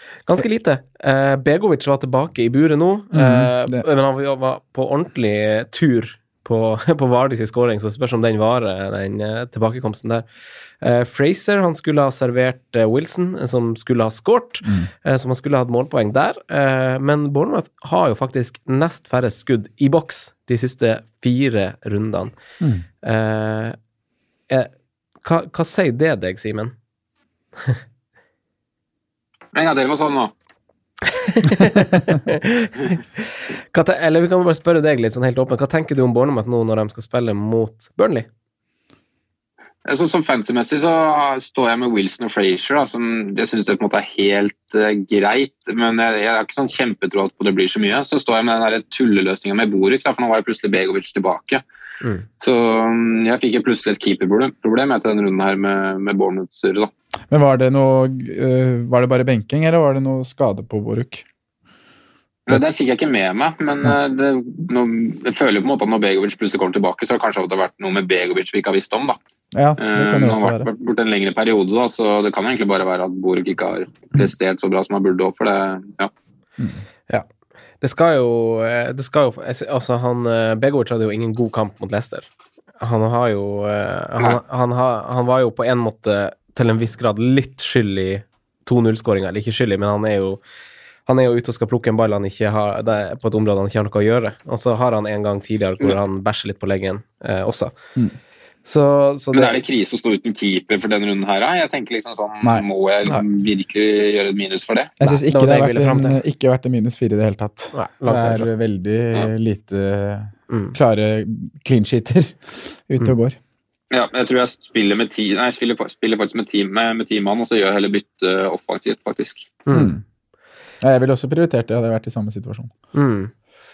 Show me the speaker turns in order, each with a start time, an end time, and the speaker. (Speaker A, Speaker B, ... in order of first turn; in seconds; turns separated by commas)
Speaker A: 0.2-10.2, Speaker B: 3.1-3.8, Speaker A: 10.8-22.3, Speaker B: 14.6-14.9, Speaker A: 23.0-23.8, Speaker A: 25.2-26.7, Speaker C: 29.5-30.3, Speaker A: 31.1-38.3, Speaker C: 39.8-51.6, Speaker C: 52.4-56.9, Speaker B: 57.3-61.2, Speaker C: 62.5-69.2, Speaker B: 69.5-70.7, Speaker C: 69.8-76.1, Speaker A: 77.8-82.3, Speaker A: 82.8-90.4, Speaker A: 91.0-97.7, Speaker A: 98.6-99.6, Speaker C: 99.3-104.9, Speaker B: 105.0-113.4, Speaker A: 105.0-106.2, Speaker A: 107.7-108.5, Speaker A: 110.5-110.8, Speaker C: 113.9-119.5, Speaker A: 119.7-119.9, Speaker B: 119.7-120.0, Speaker B: 120.8-122.7, Speaker A: 122.9-123.3